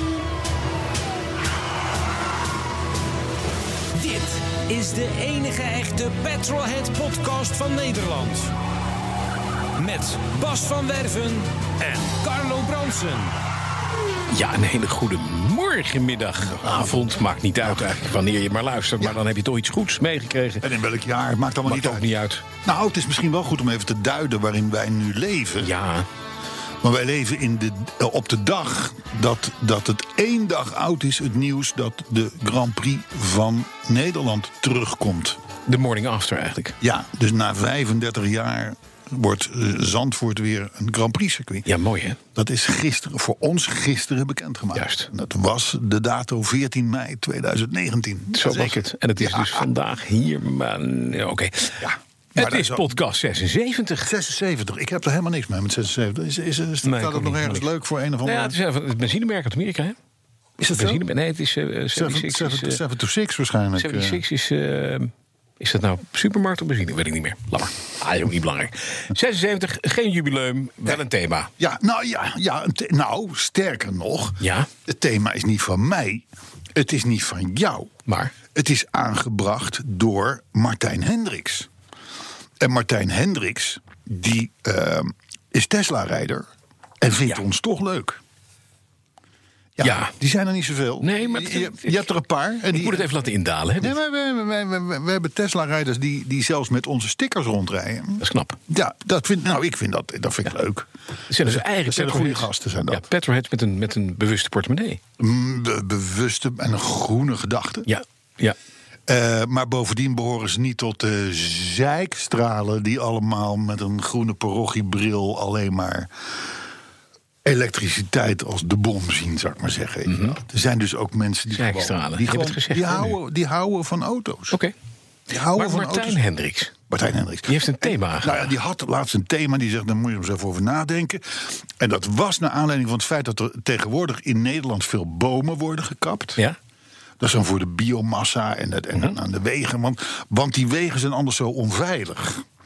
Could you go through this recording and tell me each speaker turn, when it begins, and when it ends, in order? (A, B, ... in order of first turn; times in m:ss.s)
0:04.0-0:08.5 A
0:09.8-0:13.3 A
0:14.3-0:20.7 B
0:16.4-0:17.0 C
0:20.6-0:22.1 C
0:21.6-0:22.4 B
0:22.6-0:25.7 C
0:25.6-0:26.1 B
0:26.8-0:35.4 C
0:35.7-0:36.8 B
0:36.8-0:41.7 C
0:41.7-0:42.2 B
0:42.4-0:49.7 C
0:44.8-0:45.1 B
0:48.3-0:51.8 B
0:51.8-0:53.0 C
0:52.4-0:54.1 B
0:54.0-0:58.6 C
0:56.8-0:57.7 B
0:58.2-1:00.0 B
1:00.6-1:01.0 C
1:00.7-1:02.8 B
1:01.9-1:04.2 C
1:03.8-1:11.5 B
1:11.6-1:18.0 C
1:14.4-1:14.7 B
1:18.1-1:18.3 B
1:18.5-1:21.7 C
1:22.6-1:26.4 C
1:27.0-1:28.2 C
1:29.8-1:33.1 C
1:29.8-1:30.1 B
1:31.0-1:32.0 B
1:32.7-1:34.0 B
1:33.8-1:43.0 C
1:38.2-1:38.6 B
1:41.3-1:45.0 B
1:45.2-1:47.9 C
1:47.9-1:48.6 B
1:49.1-1:56.1 C
1:57.4-2:04.6 C
2:00.1-2:00.4 B
2:01.5-2:03.2 B
2:05.3-2:06.2 C
2:05.5-2:06.8 B
2:06.9-2:16.4 C
2:07.5-2:08.5 B
2:17.2-2:22.4 C